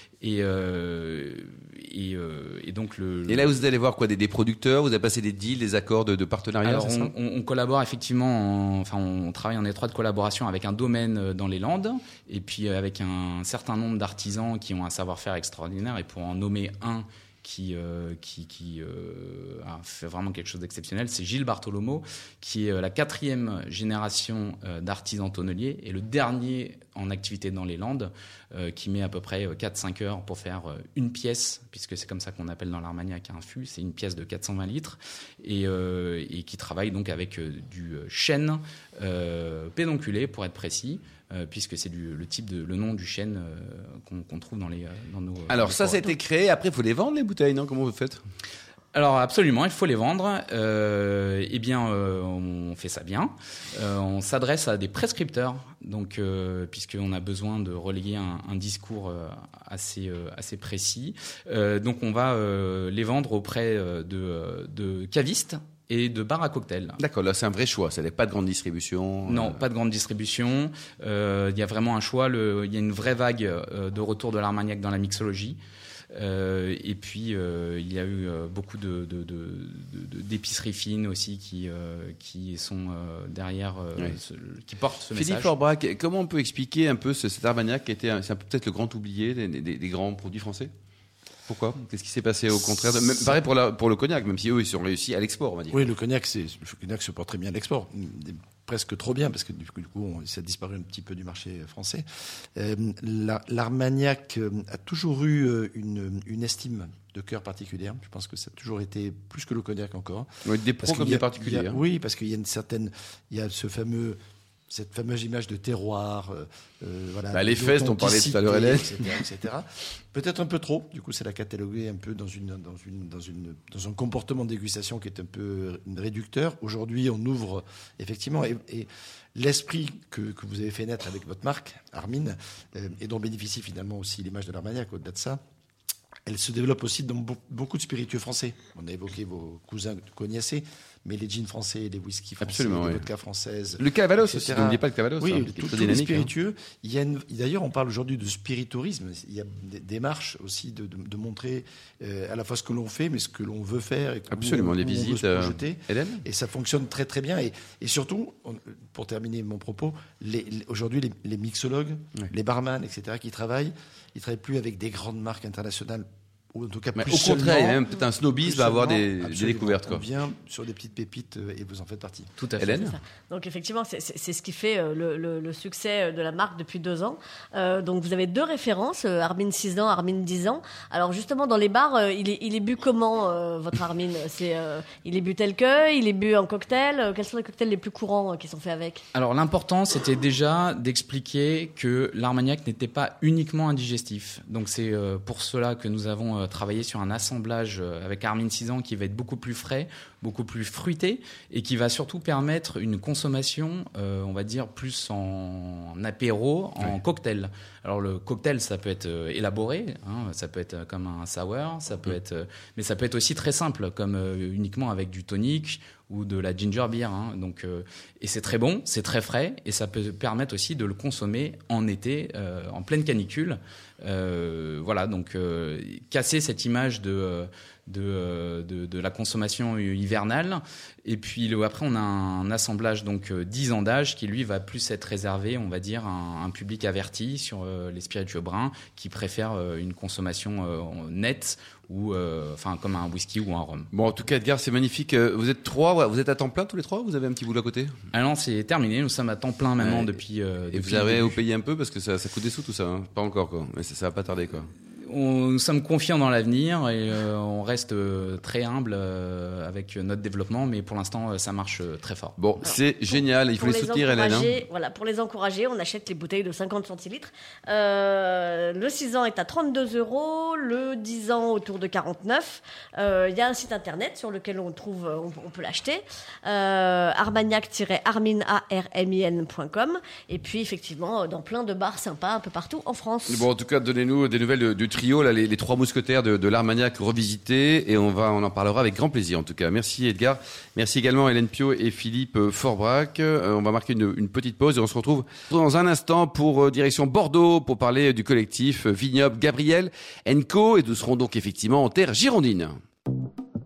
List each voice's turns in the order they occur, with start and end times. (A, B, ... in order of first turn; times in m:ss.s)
0:00.2-0:03.6 A
0:03.3-0:07.1 B
0:06.6-0:46.1 A
0:45.5-0:48.2 B
0:48.9-1:07.0 A
1:07.0-1:09.6 B
1:09.3-1:15.6 A
1:16.1-1:25.5 A
1:25.2-1:30.7 B
1:31.5-1:35.9 B
1:35.7-1:50.3 C
1:50.5-1:51.8 B
1:50.8-2:15.4 C
1:57.3-1:58.9 B
2:16.3-2:47.8 C
2:22.4-2:23.0 B
2:23.8-2:26.3 B
2:34.3-2:36.2 B
2:47.0-2:50.0 B
2:48.4-2:52.3 C
2:52.4-2:53.0 A
2:52.6-2:53.0 B
2:53.3-3:09.0 D
3:09.1-4:03.9 A
4:03.9-4:08.0 B
4:08.1-4:11.4 A
4:09.8-4:10.2 B
4:10.7-4:14.7 B
4:15.0-4:22.4 A
4:22.4-4:24.6 B
4:22.6-4:43.4 D
4:43.3-5:02.8 B